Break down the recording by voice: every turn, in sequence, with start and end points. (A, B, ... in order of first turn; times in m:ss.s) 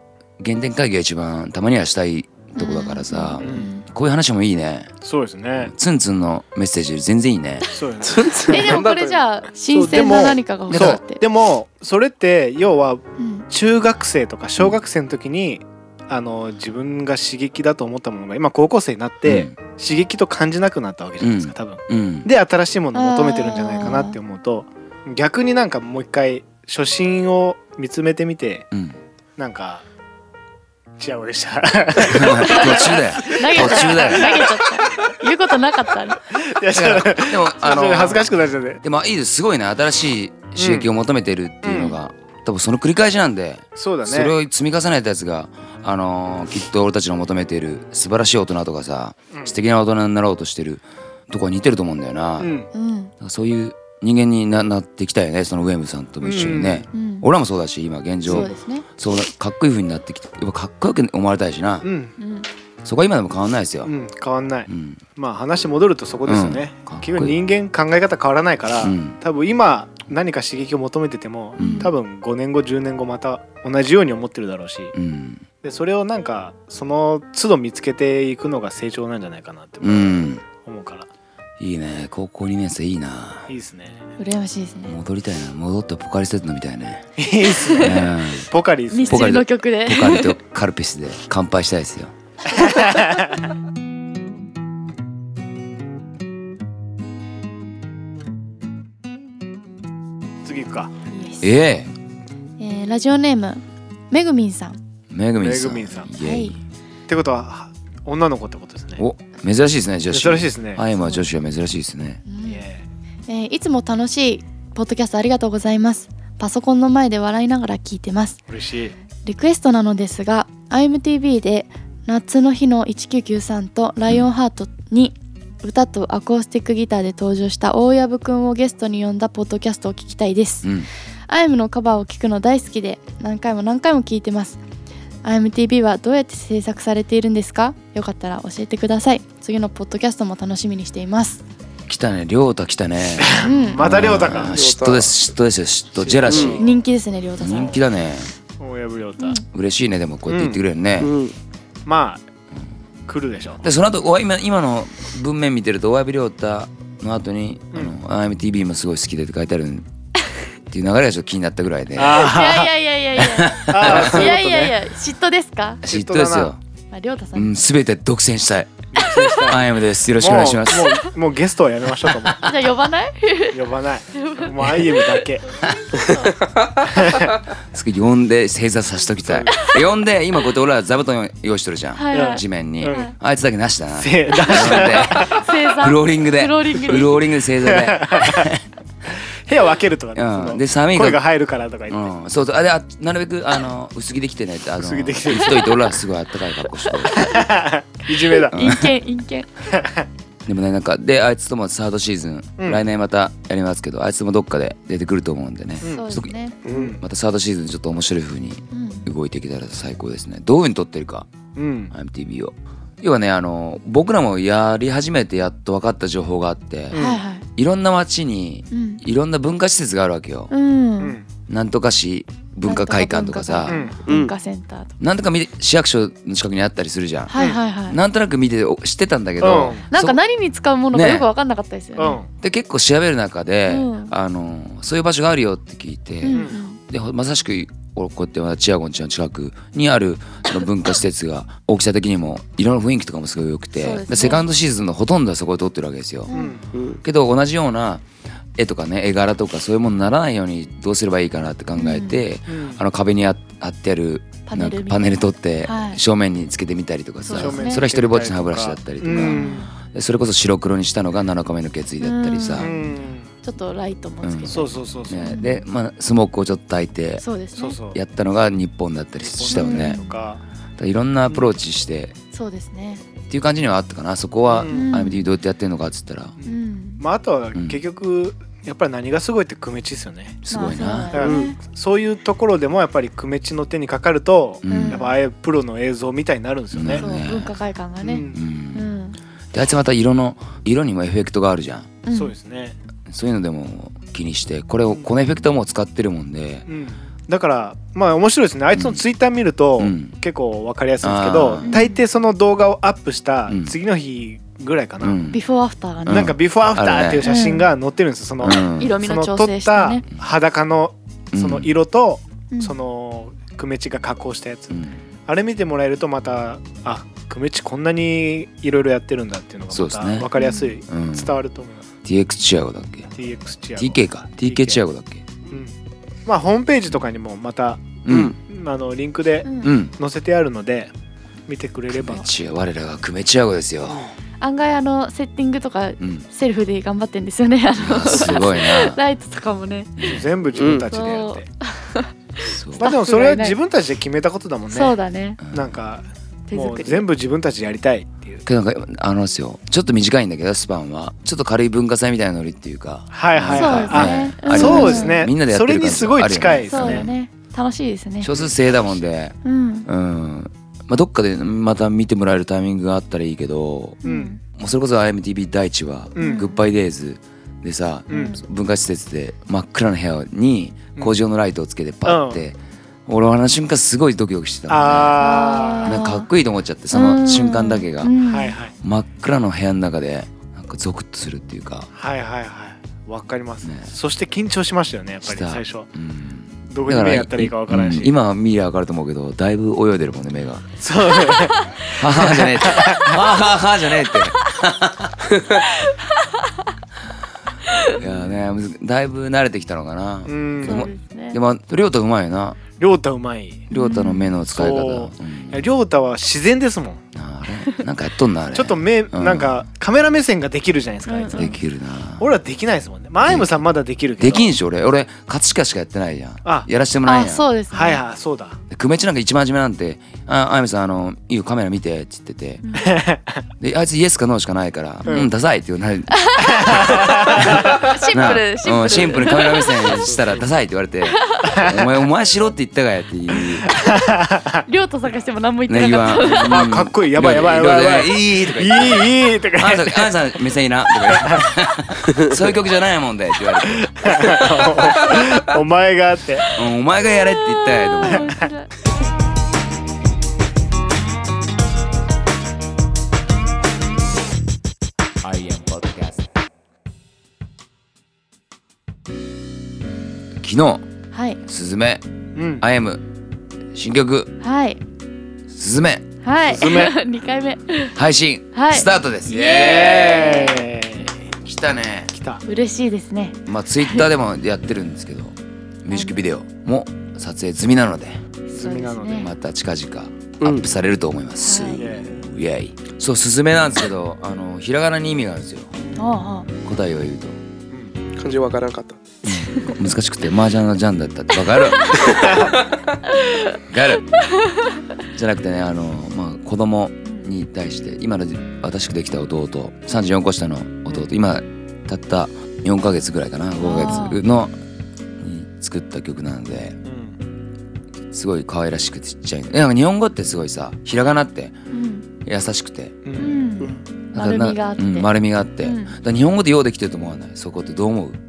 0:00.4-0:04.9 A
0:02.6-0:03.8 B
0:03.4-0:03.7 C
0:05.0-0:05.7 C
0:05.6-0:07.7 A
0:07.7-0:08.8 C
0:08.0-0:09.2 D
0:08.5-0:11.2 B
0:09.7-0:28.7 C
0:10.7-0:11.0 A
0:13.2-0:13.4 B
0:19.2-0:19.5 A
0:21.2-0:22.3 A
0:22.9-0:24.2 B
0:28.7-0:29.0 A
0:29.4-0:29.8 C
0:31.0-0:34.4 C
0:32.0-0:34.4 A
0:32.4-0:36.2 B
0:36.3-0:38.8 C
0:36.7-0:38.3 A
0:38.8-0:52.5 A
0:40.6-0:40.9 C
0:41.6-0:42.0 C
0:43.8-0:44.3 C
0:52.4-0:52.7 C
0:52.7-0:53.1 B
0:53.2-1:01.9 A
0:56.2-0:56.9 C
0:56.9-0:57.2 B
0:58.2-0:58.8 B
1:01.8-1:02.1 C
1:02.2-1:02.5 B
1:02.8-1:03.9 A
1:03.8-1:14.9 C
1:04.7-1:05.0 A
1:06.2-1:07.4 A
1:08.8-1:09.2 A
1:11.6-1:11.9 B
1:11.6-1:11.9 A
1:14.9-1:15.4 A
1:15.6-1:21.1 C
1:19.8-1:20.4 A
1:21.6-1:23.5 A
1:23.5-1:24.0 C
1:24.2-1:24.9 B
1:24.8-1:27.1 A
1:27.2-1:29.4 C
1:27.8-1:28.5 A
1:28.9-1:30.4 B
1:29.1-1:32.1 A
1:32.5-1:33.3 C
1:40.4-1:40.9 C
1:41.1-1:41.5 B
1:41.4-1:41.9 A
1:42.6-1:44.8 B
1:45.1-1:46.6 A
1:45.4-1:46.1 C
1:46.1-1:46.6 B
1:47.1-1:49.0 C
1:49.0-1:52.2 A
1:50.1-1:50.8 C
1:51.0-1:51.2 B
1:52.2-1:52.6 B
1:52.4-1:52.8 C
1:53.3-1:58.4 B
1:58.5-1:59.0 C
1:59.2-2:10.7 B
2:11.3-2:14.6 B
2:15.2-2:21.4 B
2:21.9-2:26.6 A
2:23.2-2:24.5 C
2:23.4-2:24.1 B
2:24.4-2:25.2 D
2:26.0-2:26.8 C
2:26.2-2:26.6 D
2:26.6-2:27.8 B
2:27.4-2:28.3 A
2:28.6-2:29.4 C
2:29.5-2:31.1 A
2:30.3-2:30.6 C
2:31.0-2:31.3 D
2:31.8-2:32.2 C
2:33.0-2:33.6 C
2:33.6-2:39.9 A
2:40.7-2:42.3 A
2:42.0-2:42.7 C
2:42.2-2:45.8 B
2:43.2-2:44.3 A
2:43.7-2:44.8 C
2:45.8-2:46.6 A
2:45.8-2:46.5 C
2:46.9-2:47.5 B
2:47.3-2:51.0 A
2:48.9-2:49.6 C
2:50.2-2:52.5 C
2:52.1-2:52.4 A
2:52.4-2:56.4 B
2:53.5-2:55.4 C
2:56.4-2:56.8 D
2:56.9-2:57.3 C
2:57.6-3:08.6 A
3:01.9-3:03.1 B
3:02.1-3:03.1 C
3:04.0-3:05.4 C
3:04.5-3:07.2 B
3:07.6-3:08.5 C
3:09.4-3:12.1 C
3:10.1-3:11.2 A
3:11.9-3:17.4 A
3:14.8-3:15.8 C
3:17.1-3:18.7 C
3:18.3-3:19.5 B
3:18.5-3:18.9 A
3:19.7-3:20.0 C
3:20.4-3:26.3 A
3:25.9-3:26.6 B
3:26.6-3:26.9 D
3:26.7-3:27.0 C
3:27.0-3:31.3 A
3:28.7-3:29.0 B
3:31.5-3:31.9 C
3:31.9-3:37.0 A
3:36.9-3:37.2 C
3:36.9-3:37.4 B
3:37.5-3:40.5 A
3:38.7-3:39.0 B
3:40.5-3:41.2 B
3:41.0-3:41.3 C
3:41.5-3:43.8 A
3:42.6-3:45.0 B
3:43.7-3:44.0 C
3:44.1-3:44.3 D
3:45.0-3:47.3 A
3:47.3-3:48.0 B
3:47.9-3:50.2 A
3:49.4-3:49.8 C
3:49.9-3:52.2 B
3:50.9-3:51.3 A
3:52.0-3:52.3 C
3:52.4-4:06.3 A
3:53.7-3:54.1 B
3:56.2-3:56.8 B
4:03.8-4:04.4 B
4:06.3-4:06.6 B
4:06.3-4:06.7 C
4:06.7-4:07.0 D
4:07.0-4:08.0 A
4:08.6-4:22.7 A
4:11.8-4:12.2 B
4:12.5-4:12.8 C
4:14.5-4:16.0 B
4:17.2-4:17.8 B
4:17.3-4:19.6 C
4:19.0-4:19.7 B
4:22.0-4:25.6 B
4:22.6-4:23.3 C
4:24.2-4:27.2 A
4:24.5-4:25.3 C
4:27.2-4:27.8 B
4:27.5-4:28.0 C
4:27.9-4:30.0 A
4:29.2-4:30.4 C
4:29.5-4:30.2 B
4:30.8-4:32.1 A
4:32.3-4:33.0 B
4:33.3-4:36.3 A
4:34.5-4:35.0 C
4:34.7-4:35.3 B
4:36.4-4:40.4 C
4:36.4-4:37.0 B
4:37.5-4:37.8 A
4:40.4-4:41.1 A
4:40.5-4:41.6 B
4:41.1-4:47.0 C
4:41.2-4:41.5 D
4:44.6-4:45.0 A
4:44.7-4:45.1 B
4:46.7-4:47.5 A
4:46.9-4:49.2 B
4:48.0-4:48.4 C
4:48.3-4:48.9 A
4:49.5-4:52.0 A
4:52.0-4:52.3 B
4:52.1-4:52.8 C
4:53.1-4:56.7 A
4:56.7-5:05.2 C
4:58.7-4:59.0 A
4:59.8-5:00.2 A
5:01.0-5:01.7 A
5:01.6-5:02.0 B
5:03.5-5:03.7 A
5:05.0-5:05.4 A
5:05.3-5:06.3 B
5:06.0-5:07.3 A
5:06.1-5:21.8 C
5:07.2-5:07.7 B
5:08.4-5:09.0 A
5:08.8-5:10.0 B
5:11.3-5:11.7 A
5:12.5-5:12.8 B
5:14.7-5:15.0 A
5:19.7-5:20.3 A
5:20.3-5:20.8 B
5:20.9-5:21.4 A
5:22.0-5:23.1 A
5:23.1-5:24.8 C
5:23.8-5:25.2 A
5:26.2-5:30.9 C
5:28.0-5:28.3 A
5:28.1-5:28.3 D
5:29.4-5:29.8 B
5:29.6-5:29.9 A
5:31.5-5:32.3 C
5:31.9-5:34.1 A
5:34.4-5:40.1 B
5:36.0-5:36.2 A
5:37.8-5:39.0 A
5:40.0-5:40.2 A
5:40.0-5:41.4 C
5:40.5-5:40.8 D
5:40.9-5:43.6 B
5:42.4-5:42.9 A
5:42.8-5:45.0 C
5:44.7-5:45.4 B
5:45.4-5:45.8 A
5:45.5-5:48.4 C
5:46.5-5:47.1 B
5:48.4-5:57.1 A
5:53.1-5:57.1 C
5:53.5-5:55.2 B
5:56.6-5:58.3 B
5:58.2-6:15.2 A
5:58.3-5:59.0 C
5:59.4-5:59.9 B
6:04.0-6:04.3 C
6:04.0-6:04.4 B
6:06.2-6:06.5 C
6:06.2-6:06.6 B
6:08.1-6:08.3 C
6:08.1-6:08.4 B
6:12.0-6:12.4 C
6:14.7-6:16.0 C
6:15.2-6:16.3 B
6:15.8-6:18.2 A
6:16.9-6:18.6 B
6:18.2-6:18.7 C
6:18.8-6:21.9 A
6:21.9-6:25.9 C
6:23.6-6:23.9 A
6:25.2-6:30.7 A
6:26.7-6:28.1 C
6:30.8-6:33.2 C
6:31.9-6:35.3 A
6:35.6-6:36.6 B
6:37.7-6:38.0 B
6:37.9-6:42.6 A
6:40.2-6:40.9 C
6:40.6-6:41.4 B
6:42.8-6:43.7 C
6:43.7-6:44.3 B
6:43.7-6:45.7 A
6:44.5-6:47.0 C
6:47.1-6:49.6 A
6:48.5-6:51.6 C
6:51.0-6:51.6 B
6:51.3-6:52.3 A
6:52.2-6:54.5 C
6:53.2-6:53.6 A
6:54.2-6:57.5 A
6:57.0-6:58.0 B
6:57.7-6:58.6 C
6:58.7-7:02.6 A
7:02.6-7:03.0 B
7:02.8-7:03.4 C
7:03.6-7:13.7 A
7:06.1-7:09.9 B
7:06.5-7:07.8 C
7:10.0-7:10.4 C
7:11.1-7:11.7 B
7:11.5-7:11.9 C
7:13.4-7:14.6 C
7:14.6-7:16.6 B
7:15.7-7:24.5 A
7:16.3-7:20.1 C
7:21.0-7:21.4 C
7:23.7-7:26.5 C
7:26.5-7:28.3 A
7:27.5-7:28.7 B
7:35.2-7:36.3 A
7:40.4-7:40.8 A
7:41.1-7:41.4 B
7:41.4-7:42.0 A
7:42.3-7:42.6 C
7:42.6-7:43.0 A
7:43.7-7:44.3 A
7:44.4-7:44.8 B
7:45.5-7:46.1 A
7:46.2-7:48.0 B
7:46.5-7:46.9 C
7:47.9-7:50.4 A
7:48.5-7:50.7 B
7:49.4-7:51.2 C
7:51.4-7:52.1 A
7:52.1-7:52.4 C
7:52.4-7:54.1 B
7:53.4-7:58.2 A
7:55.9-7:56.2 B
7:58.5-7:59.3 B
7:58.5-7:59.3 C
7:59.1-8:05.7 A
8:01.4-8:01.9 B
8:01.8-8:02.2 C
8:06.0-8:06.5 B
8:06.6-8:07.4 A
8:08.2-8:09.0 D
8:09.2-8:12.5 A
8:09.3-8:09.8 B
8:12.0-8:12.7 D
8:12.2-8:12.5 C
8:13.2-8:13.6 B
8:13.6-8:14.1 A
8:14.2-8:14.8 B
8:15.1-8:24.5 A
8:23.6-8:24.2 B
8:25.2-8:26.8 A
8:26.8-8:27.2 C
8:28.1-8:31.6 A
8:31.7-8:32.1 B
8:32.2-8:33.0 A
8:33.0-8:33.4 C
8:33.2-8:36.0 B
8:34.1-8:38.2 A